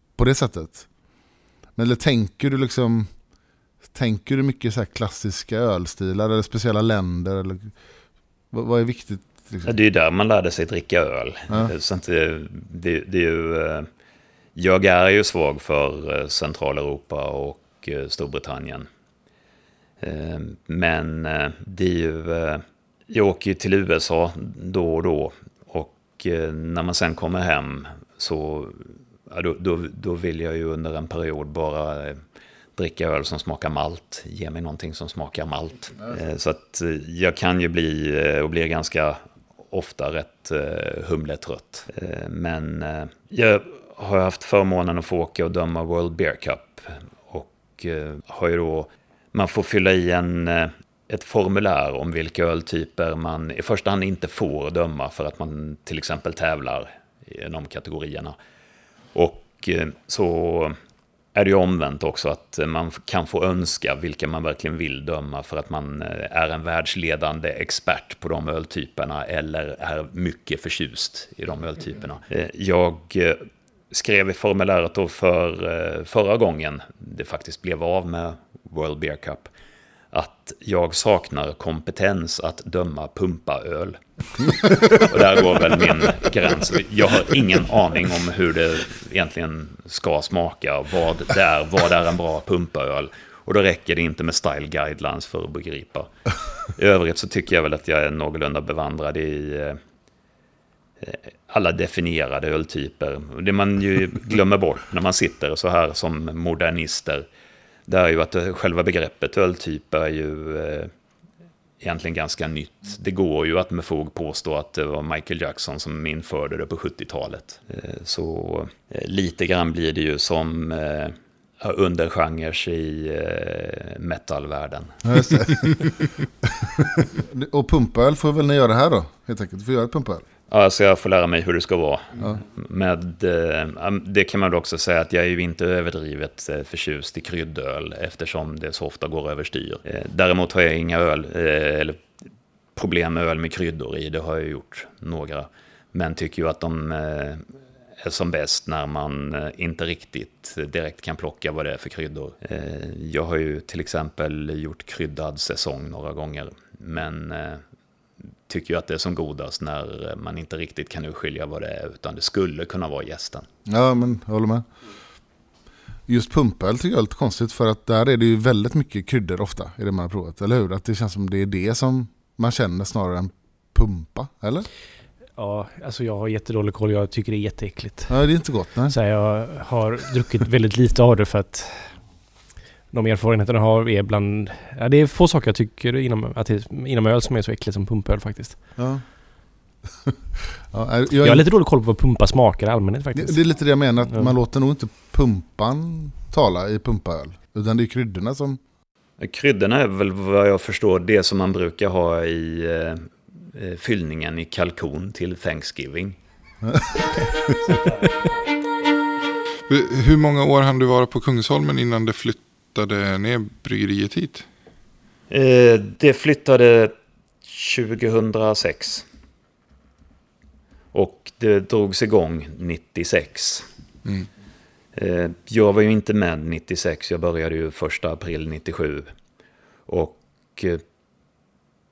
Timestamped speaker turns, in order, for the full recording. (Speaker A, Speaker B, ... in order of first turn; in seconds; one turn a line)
Speaker A: 0.2-0.8
Speaker A: 1.8-3.1
Speaker A: 3.9-7.7
Speaker A: 8.5-9.7
Speaker B: 9.6-13.9
Speaker B: 14.5-18.9
Speaker B: 20.0-32.2
Speaker B: 32.8-58.4
Speaker B: 59.1-60.8
Speaker B: 61.3-79.5
Speaker B: 80.1-96.1
Speaker B: 96.7-99.8
Speaker B: 101.0-107.2
Speaker B: 107.9-110.9
Speaker B: 111.8-125.3
Speaker A: 125.0-130.2
Speaker B: 130.5-142.0
Speaker B: 142.8-147.5
Speaker B: 148.0-157.6
Speaker B: 158.5-163.4
Speaker A: 163.7-164.7
Speaker A: 166.1-174.7
Speaker C: 175.4-178.2
Speaker A: 178.1-178.9
Speaker C: 178.9-181.9
Speaker C: 182.9-188.6
Speaker A: 188.8-189.0
Speaker A: 190.7-191.4
Speaker C: 191.1-193.4
Speaker A: 193.1-198.6
Speaker B: 199.2-206.2
Speaker A: 206.6-207.1
Speaker D: 209.7-214.4
Speaker B: 215.3-216.9
Speaker B: 217.4-219.0
Speaker B: 220.9-223.7
Speaker B: 224.9-229.1
Speaker B: 229.9-230.8